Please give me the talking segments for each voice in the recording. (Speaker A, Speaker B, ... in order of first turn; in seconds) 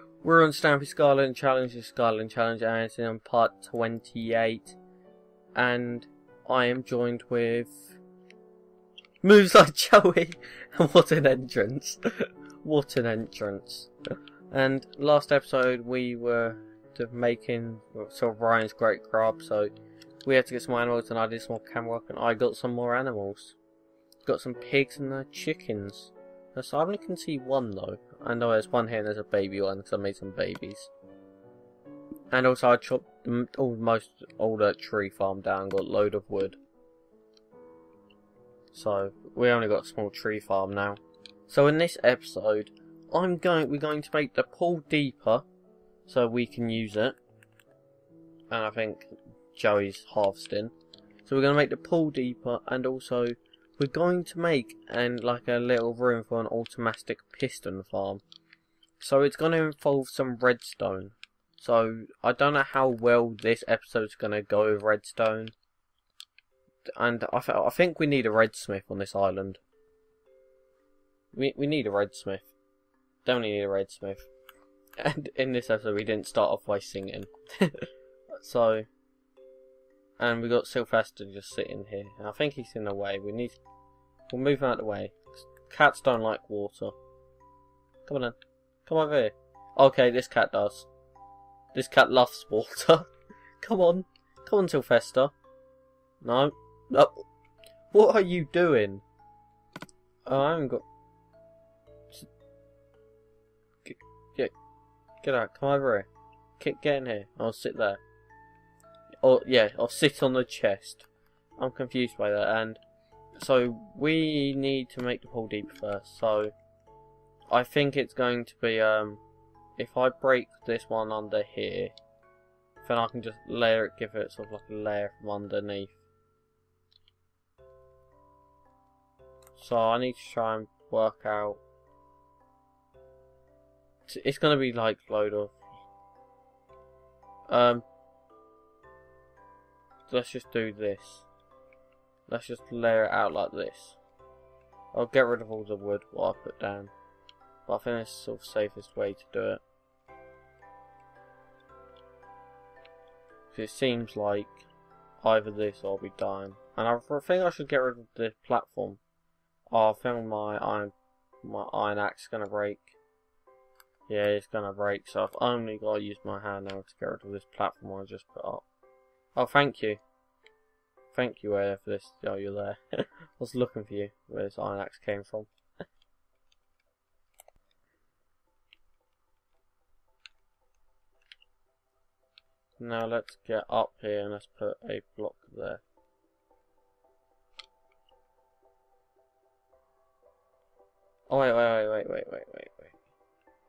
Speaker A: 0.2-4.8, 5.5-8.0, 9.2-13.9, 14.5-19.7, 20.2-23.6, 24.2-30.9, 32.3-36.6, 38.7-45.5, 46.1-47.2, 48.5-50.7, 51.2-58.2, 59.0-65.5, 66.9-69.6, 71.3-72.5, 73.2-74.3, 75.0-78.9, 80.2-83.6, 84.3-87.0, 88.1-90.9, 91.7-93.1, 93.6-95.3, 96.2-97.3, 97.9-99.0, 100.2-100.8, 103.8-104.5, 105.2-108.0, 109.2-112.8, 113.4-116.5, 117.5-119.2, 119.8-121.9, 122.8-126.0, 129.6-131.6, 134.1-135.6, 137.5-137.9, 140.1-141.3, 142.3-144.0, 144.9-146.9, 147.7-149.6, 153.5-154.7, 155.2-159.0, 159.7-163.0, 164.1-168.6, 169.4-170.0, 171.1-175.5, 182.8-185.8, 191.3-193.0